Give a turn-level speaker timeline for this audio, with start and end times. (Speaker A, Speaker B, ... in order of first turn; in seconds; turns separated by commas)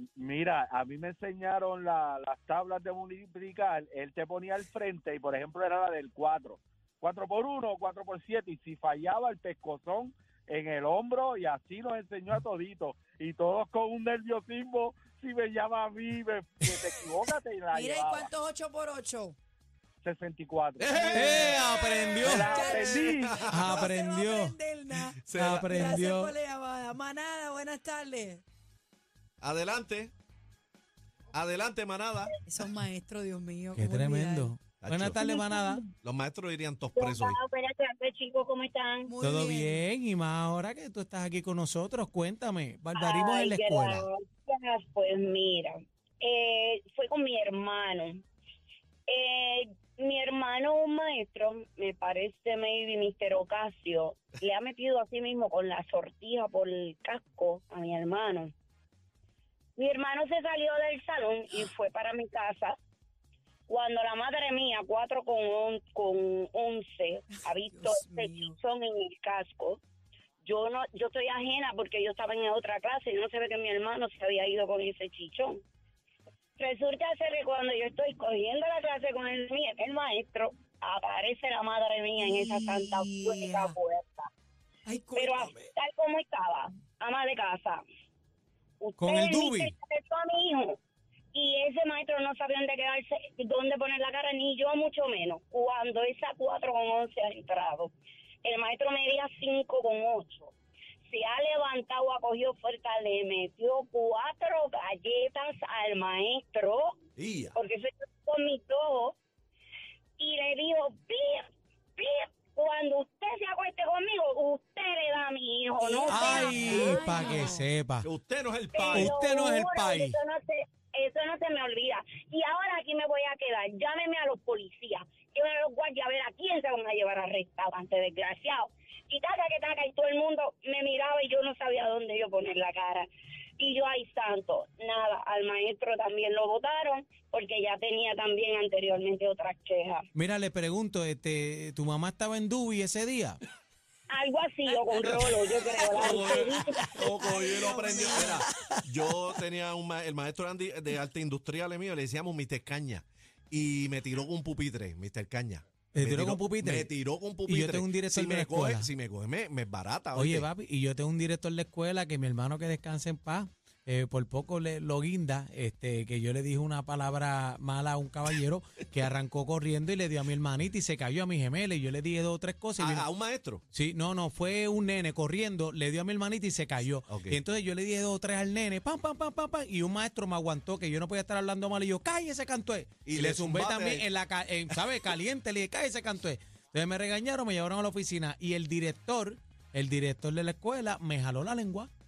Speaker A: 0.2-18.3, Speaker B: 17.7-19.4, Speaker A: 20.0-21.7, Speaker C: 20.8-23.8, Speaker B: 20.8-28.4, Speaker D: 21.1-22.6, Speaker A: 22.2-23.4, Speaker D: 23.5-24.5, Speaker C: 25.2-25.9, Speaker D: 25.3-26.3, Speaker C: 29.4-30.1, Speaker C: 31.3-32.3, Speaker B: 32.5-34.5, Speaker D: 33.8-35.8, Speaker C: 34.8-35.2, Speaker E: 35.2-35.7, Speaker C: 36.0-37.4, Speaker E: 37.0-39.1, Speaker B: 39.1-39.8, Speaker D: 39.2-44.0, Speaker E: 43.0-48.2, Speaker E: 49.1-58.5, Speaker E: 59.8-62.8, Speaker E: 63.7-69.8, Speaker B: 67.3-68.6, Speaker E: 70.4-75.6, Speaker E: 76.6-84.3, Speaker B: 82.2-83.7, Speaker B: 84.8-85.7, Speaker E: 85.1-87.8, Speaker E: 88.8-90.8, Speaker D: 89.0-89.7, Speaker E: 91.3-100.5, Speaker E: 101.1-107.0, Speaker C: 107.2-107.5, Speaker E: 107.5-109.2, Speaker E: 110.2-117.5, Speaker B: 115.8-117.6, Speaker D: 116.0-118.0, Speaker C: 118.0-119.2, Speaker E: 118.7-133.1, Speaker D: 118.9-120.2, Speaker E: 133.6-140.1, Speaker D: 140.2-143.4, Speaker E: 144.1-147.0, Speaker C: 145.9-160.5, Speaker B: 147.2-148.5, Speaker D: 155.9-156.9, Speaker D: 157.5-158.9, Speaker D: 160.1-173.1, Speaker C: 172.8-173.6, Speaker D: 173.7-191.9, Speaker C: 177.1-177.4, Speaker C: 183.0-184.1, Speaker C: 184.7-185.0